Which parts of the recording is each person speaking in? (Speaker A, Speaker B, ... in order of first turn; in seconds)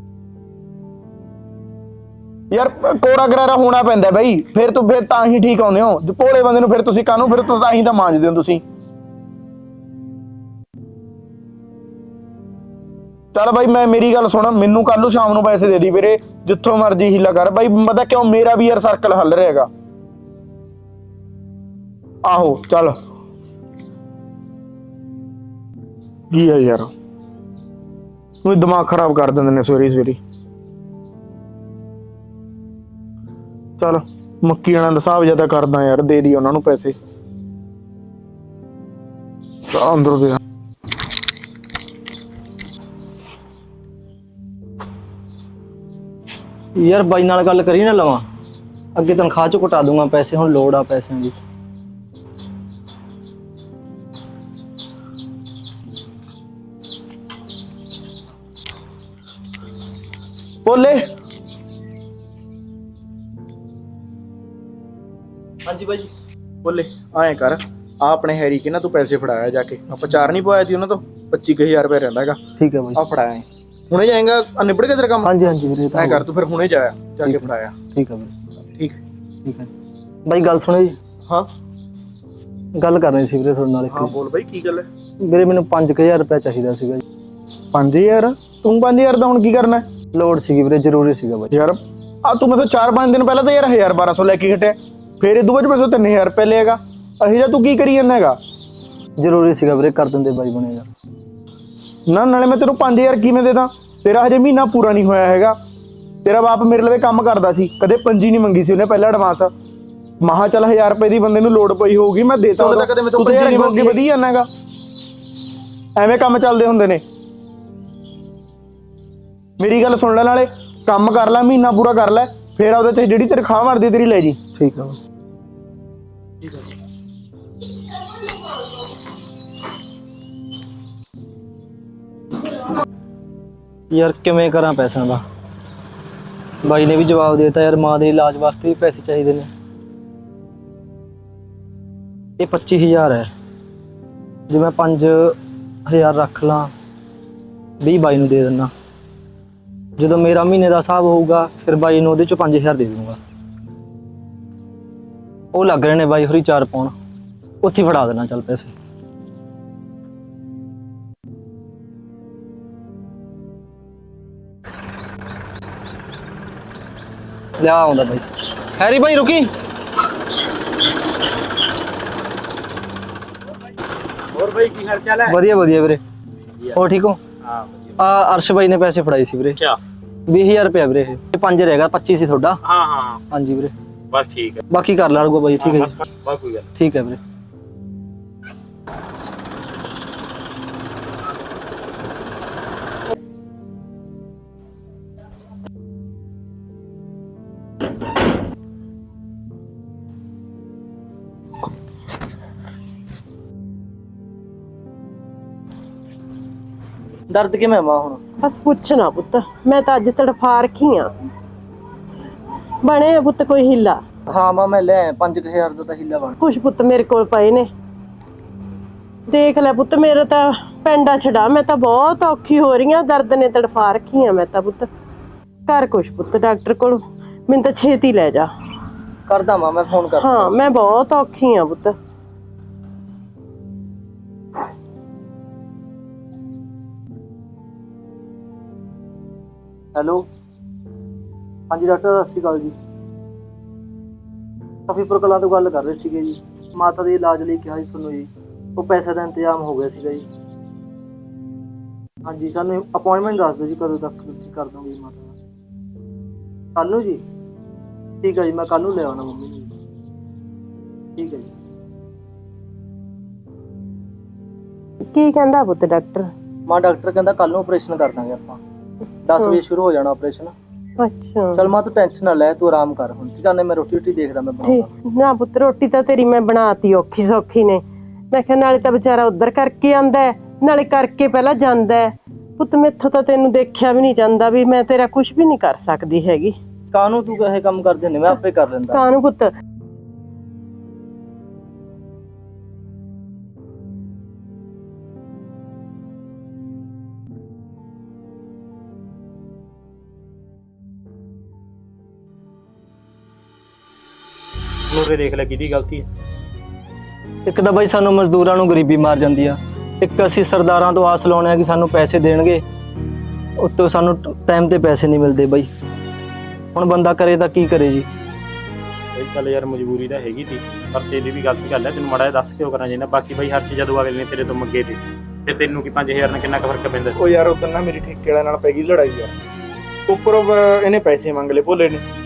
Speaker A: 2.5-8.6, 13.3-19.7, 22.2-22.9, 26.3-26.9, 28.4-30.2, 33.8-36.9, 39.7-40.4, 60.6-61.0, 66.6-72.4, 73.0-75.3, 75.9-77.8, 83.9-84.8, 87.7-89.8, 91.5-98.3, 102.1-105.5, 106.2-109.5, 110.2-114.5, 116.0-117.0, 119.6-124.4, 327.1-329.3, 330.1-332.0
Speaker B: 46.8-48.3, 48.9-51.4, 65.7-66.1, 72.6-73.0, 75.2-76.2, 77.2-78.3, 80.2-81.0, 82.8-84.2, 85.2-87.0, 90.1-91.5, 99.2-100.9, 124.6-125.0, 133.9-135.2, 136.6-139.5, 142.4-143.3, 144.5-145.3, 145.9-146.7, 147.8-148.7, 150.0-153.2, 155.5-156.9, 157.6-158.7, 167.6-169.5, 175.3-176.0, 176.8-177.2, 178.0-179.6, 180.3-182.6, 183.3-183.7, 184.7-185.9, 186.8-187.2, 207.3-208.2, 214.3-216.4, 229.3-230.6, 239.9-240.2, 241.7-242.8, 244.9-250.3, 252.2-255.3, 256.8-257.2, 258.2-259.7, 261.1-261.5, 266.7-268.6, 269.2-270.5, 271.5-274.9, 286.9-289.1, 307.5-312.6, 313.6-315.7, 316.7-318.1
Speaker C: 174.3-175.4, 177.4-178.0, 182.6-183.2, 184.1-184.6, 185.6-186.7, 304.9-306.1, 319.1-327.1
Speaker D: 208.4-211.1, 212.8-214.0, 216.4-217.7, 219.3-224.9, 225.7-228.5, 230.2-231.9, 265.1-266.3, 271.0-271.7, 274.6-286.5, 288.9-289.5